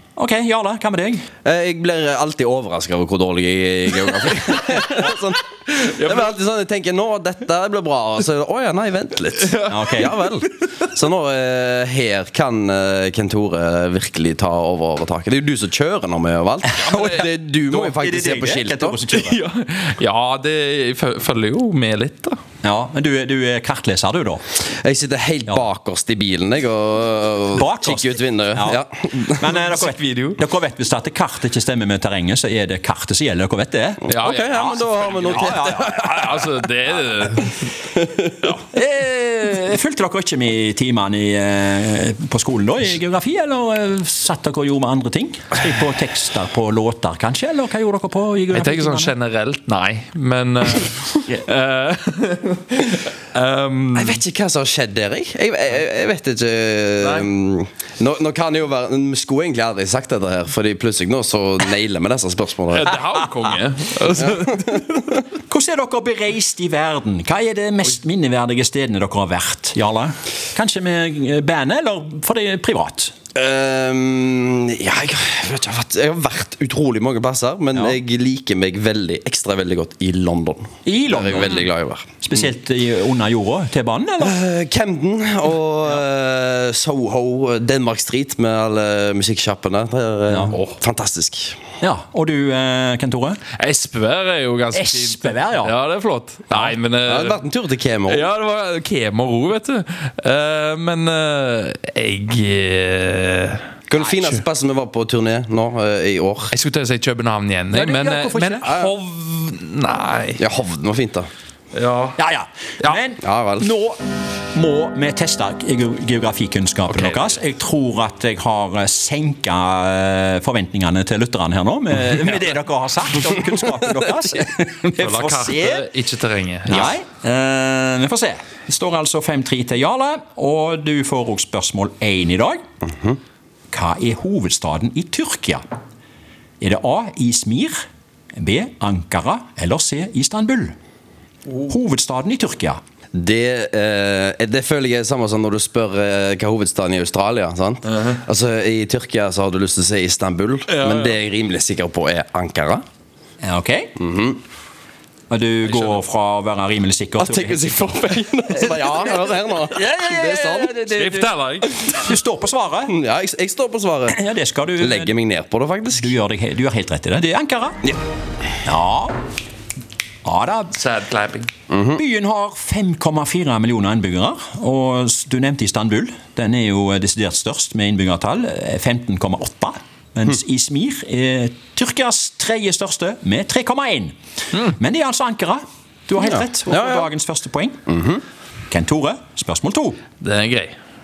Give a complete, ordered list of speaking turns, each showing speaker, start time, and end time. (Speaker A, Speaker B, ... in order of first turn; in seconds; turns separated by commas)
Speaker A: 0.1-1.2, Speaker B: 1.4-19.0, Speaker C: 5.8-6.3, Speaker C: 9.5-10.1, Speaker A: 9.7-10.1, Speaker A: 16.6-19.4, Speaker C: 16.8-17.2, Speaker C: 19.1-22.4, Speaker A: 22.6-24.4, Speaker B: 24.6-29.5, Speaker A: 27.5-36.4, Speaker C: 29.4-30.4, Speaker B: 34.0-36.4, Speaker C: 34.1-37.8, Speaker B: 37.9-38.5, Speaker A: 38.7-49.1, Speaker C: 48.5-54.2, Speaker B: 53.9-62.9, Speaker C: 57.0-57.3, Speaker C: 62.7-65.2, Speaker B: 64.2-65.1, Speaker A: 65.3-73.1, Speaker B: 73.3-82.5, Speaker A: 80.8-81.7, Speaker A: 82.2-84.3, Speaker B: 84.2-91.6, Speaker A: 90.3-90.5, Speaker C: 90.5-90.8, Speaker A: 91.8-93.4, Speaker C: 93.5-97.4, Speaker A: 94.7-95.7, Speaker A: 96.5-96.8, Speaker B: 97.0-98.3, Speaker C: 98.1-103.7, Speaker B: 103.9-106.5, Speaker C: 106.5-110.4, Speaker A: 107.7-108.7, Speaker B: 108.7-108.9, Speaker B: 110.4-111.3, Speaker C: 111.7-112.2, Speaker A: 112.2-114.0, Speaker B: 113.2-113.7, Speaker A: 114.5-125.9, Speaker C: 116.9-117.3, Speaker C: 125.0-126.9, Speaker A: 126.7-132.6, Speaker B: 132.8-133.2, Speaker A: 133.7-135.6, Speaker A: 136.6-137.8, Speaker A: 138.3-140.7, Speaker A: 141.6-142.8, Speaker B: 143.1-152.8, Speaker C: 147.9-148.2, Speaker C: 150.7-151.2, Speaker A: 153.4-153.9, Speaker B: 153.9-154.4, Speaker A: 155.3-157.9, Speaker C: 155.7-156.0, Speaker B: 157.2-160.8, Speaker A: 158.5-162.9, Speaker C: 160.9-162.1, Speaker B: 162.9-164.2, Speaker A: 164.1-165.1, Speaker B: 164.8-166.2, Speaker A: 165.9-167.8, Speaker A: 168.6-169.1, Speaker A: 170.2-170.8, Speaker C: 170.7-171.5, Speaker B: 171.7-172.0, Speaker A: 171.9-187.8, Speaker B: 186.2-187.1, Speaker B: 187.9-188.2, Speaker A: 188.7-190.0, Speaker C: 190.2-190.8